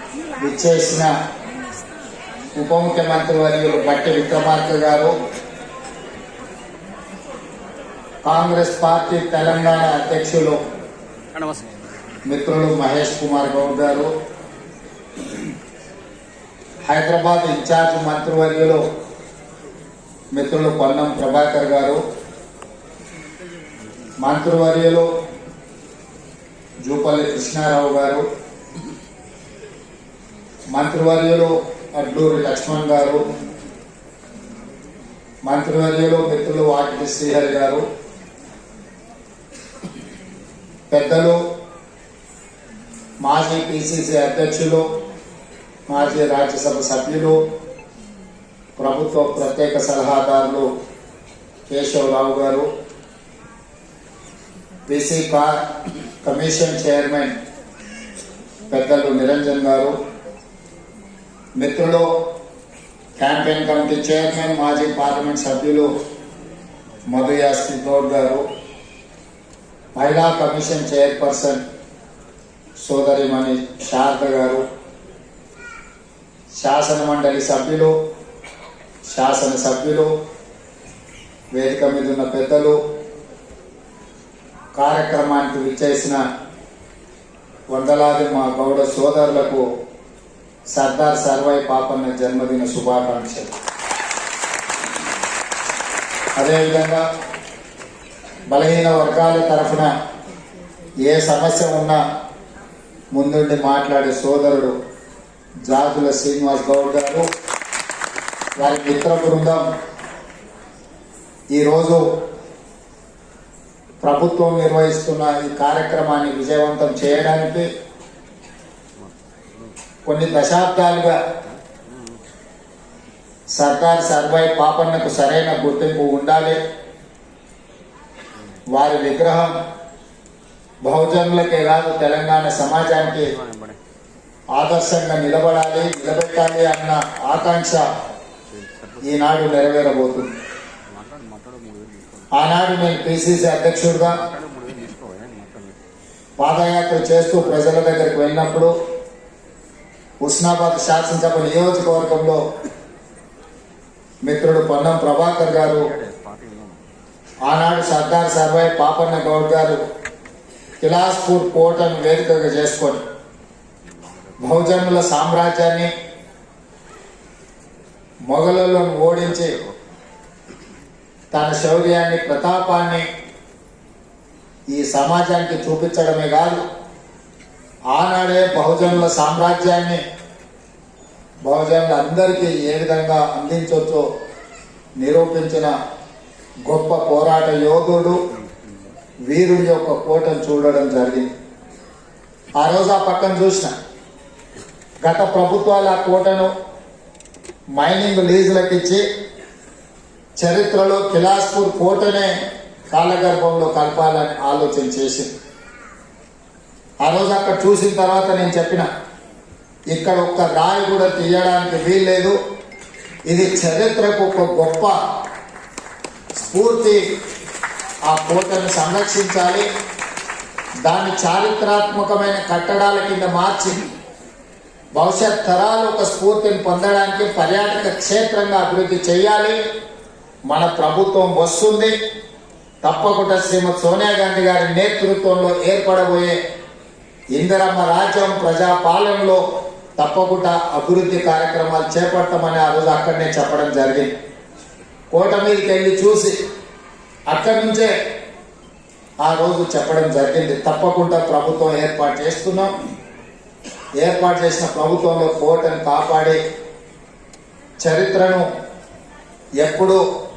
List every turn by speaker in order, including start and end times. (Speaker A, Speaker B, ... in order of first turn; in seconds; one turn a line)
Speaker A: 0.4-1.1
Speaker A: 2.5-5.2
Speaker A: 8.2-10.6
Speaker A: 12.3-14.1
Speaker A: 16.9-18.8
Speaker A: 20.3-22.0
Speaker A: 24.2-25.1
Speaker A: 26.8-28.2
Speaker A: 30.7-33.2
Speaker A: 35.4-37.8
Speaker A: 40.9-41.4
Speaker A: 43.2-44.8
Speaker A: 45.9-47.4
Speaker A: 48.8-50.7
Speaker A: 51.7-52.7
Speaker A: 54.9-55.6
Speaker A: 56.2-57.3
Speaker A: 58.7-59.9
Speaker A: 61.6-62.3
Speaker A: 63.2-65.9
Speaker A: 67.1-68.4
Speaker A: 70.0-71.6
Speaker A: 72.8-74.6
Speaker A: 76.5-77.9
Speaker A: 79.1-80.1
Speaker A: 81.5-82.8
Speaker A: 84.8-86.2
Speaker A: 87.7-89.7
Speaker A: 90.7-93.5
Speaker A: 96.4-97.0
Speaker A: 98.5-99.9
Speaker A: 101.0-102.0
Speaker A: 103.1-104.7
Speaker A: 105.7-107.2
Speaker A: 108.6-109.6
Speaker A: 111.5-112.1
Speaker A: 114.0-117.7
Speaker A: 120.0-121.2
Speaker B: 121.7-122.0
Speaker A: 123.5-126.6
Speaker A: 128.7-129.5
Speaker A: 130.8-133.3
Speaker B: 133.3-133.8
Speaker A: 134.5-137.8
Speaker B: 138.5-139.1
Speaker A: 139.0-140.3
Speaker B: 140.9-142.3
Speaker A: 142.3-144.2
Speaker B: 144.2-145.8
Speaker A: 146.4-148.7
Speaker A: 150.2-152.4
Speaker A: 154.2-155.9
Speaker B: 155.9-156.8
Speaker A: 157.4-159.8
Speaker A: 160.8-163.0
Speaker A: 164.4-165.9
Speaker A: 168.3-169.5
Speaker A: 171.3-173.1
Speaker A: 174.7-176.6
Speaker A: 177.9-180.0
Speaker A: 181.4-184.1
Speaker A: 185.0-185.7
Speaker A: 186.7-188.2
Speaker A: 189.3-191.3
Speaker A: 192.6-193.7
Speaker A: 195.0-196.5
Speaker A: 197.8-199.0
Speaker A: 200.4-202.3
Speaker A: 202.9-205.3
Speaker A: 207.0-208.9
Speaker A: 209.9-212.4
Speaker A: 213.3-215.0
Speaker A: 216.4-217.0
Speaker A: 218.1-219.7
Speaker A: 220.8-223.8
Speaker A: 224.9-229.6
Speaker A: 230.5-231.9
Speaker A: 232.8-236.4
Speaker A: 237.3-239.4
Speaker A: 240.0-244.1
Speaker A: 245.1-246.4
Speaker A: 247.3-247.9
Speaker A: 249.2-252.7
Speaker A: 254.0-256.4
Speaker A: 257.8-258.4
Speaker A: 259.6-260.0